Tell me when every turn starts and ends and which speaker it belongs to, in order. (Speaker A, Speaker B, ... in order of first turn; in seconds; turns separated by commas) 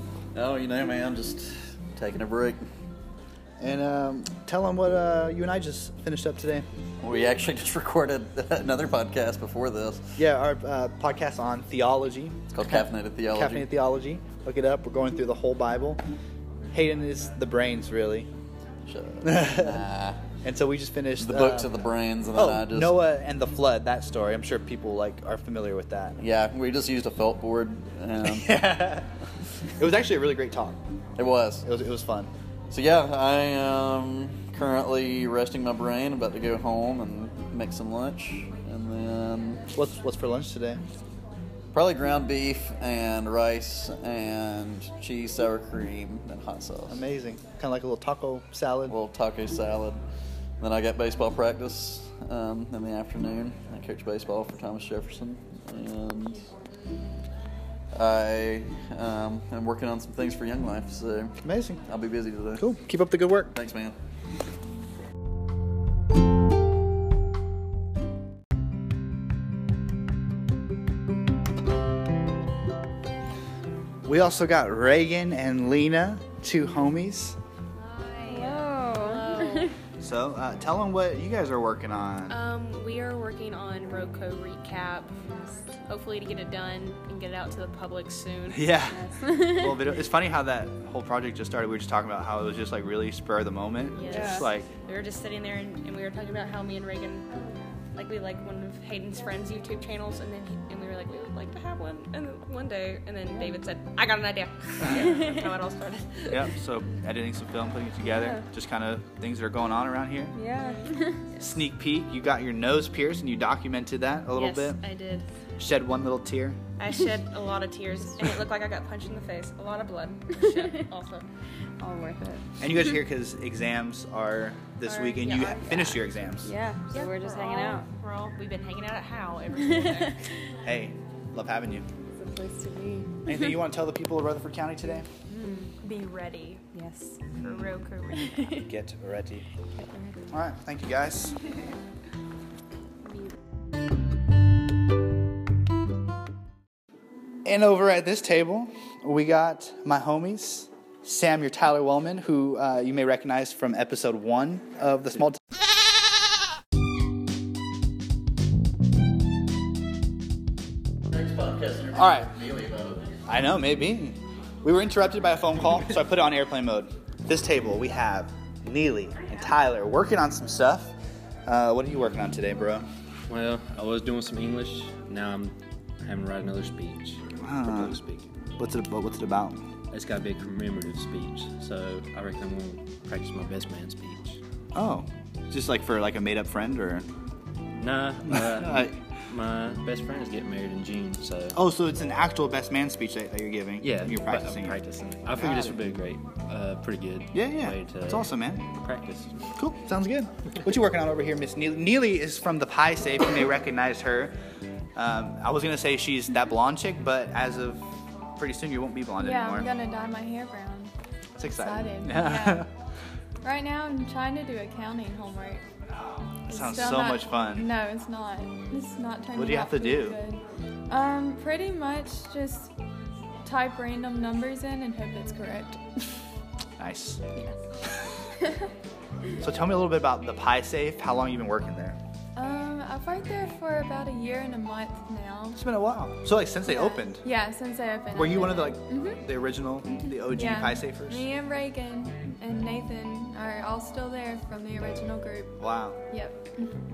Speaker A: 0.3-2.7, Speaker B: 3.6-6.7, Speaker A: 7.0-10.2, Speaker B: 10.2-16.0, Speaker A: 12.5-13.7, Speaker B: 16.7-18.3, Speaker A: 18.9-20.2, Speaker B: 19.2-19.8, Speaker B: 20.4-21.7, Speaker A: 21.2-23.0, Speaker B: 22.4-26.2, Speaker A: 26.2-28.6, Speaker B: 28.2-29.1, Speaker B: 29.8-30.8, Speaker A: 31.2-31.7, Speaker B: 31.6-32.3, Speaker A: 32.7-39.6, Speaker B: 39.8-40.8, Speaker A: 41.7-47.0, Speaker B: 46.9-49.0, Speaker A: 48.9-50.0, Speaker A: 50.6-56.5, Speaker A: 57.9-62.7, Speaker B: 61.4-61.8, Speaker B: 62.6-63.5, Speaker A: 63.5-64.0, Speaker B: 74.0-77.4, Speaker C: 77.8-79.7, Speaker D: 78.3-79.7, Speaker B: 80.0-82.4, Speaker C: 82.3-89.0, Speaker B: 88.5-94.7, Speaker C: 93.9-97.3, Speaker D: 94.1-94.5, Speaker C: 97.9-106.5, Speaker B: 106.3-110.3, Speaker D: 108.2-108.4, Speaker D: 110.3-110.8, Speaker C: 110.6-111.5, Speaker B: 111.4-114.8, Speaker C: 114.3-115.3, Speaker B: 115.6-116.6, Speaker C: 116.8-121.3, Speaker D: 121.8-122.4, Speaker B: 122.6-126.5, Speaker C: 124.9-126.2, Speaker D: 126.4-127.8, Speaker C: 126.9-130.2, Speaker D: 129.7-130.1, Speaker B: 130.6-131.9, Speaker D: 132.2-133.1, Speaker B: 133.3-135.1, Speaker C: 135.4-136.7, Speaker D: 136.7-137.1, Speaker B: 137.4-137.8, Speaker C: 137.4-138.6, Speaker B: 138.5-139.4, Speaker B: 140.3-141.4, Speaker B: 147.4-155.4, Speaker A: 161.1-163.1, Speaker B: 161.9-162.3, Speaker B: 163.3-170.9, Speaker B: 171.5-172.8, Speaker E: 173.3-178.3, Speaker B: 177.4-178.0, Speaker B: 178.6-179.7, Speaker E: 179.9-184.4, Speaker B: 184.7-187.1, Speaker E: 187.8-191.6, Speaker B: 188.5-188.9, Speaker B: 191.5-194.8, Speaker E: 193.8-199.5, Speaker B: 195.3-195.8, Speaker B: 197.3-198.7, Speaker B: 199.6-204.4, Speaker B: 205.0-207.8, Speaker B: 208.4-209.7, Speaker F: 209.2-210.9, Speaker B: 211.4-212.7, Speaker F: 211.5-212.7, Speaker F: 213.4-215.6, Speaker B: 216.0-217.7, Speaker F: 216.5-222.7, Speaker B: 219.3-220.2, Speaker F: 223.4-225.8, Speaker B: 226.8-227.2, Speaker B: 229.4-232.0, Speaker F: 232.3-235.6, Speaker B: 235.6-237.2, Speaker F: 236.7-239.3, Speaker B: 238.2-241.3, Speaker F: 239.9-246.8, Speaker B: 245.6-246.0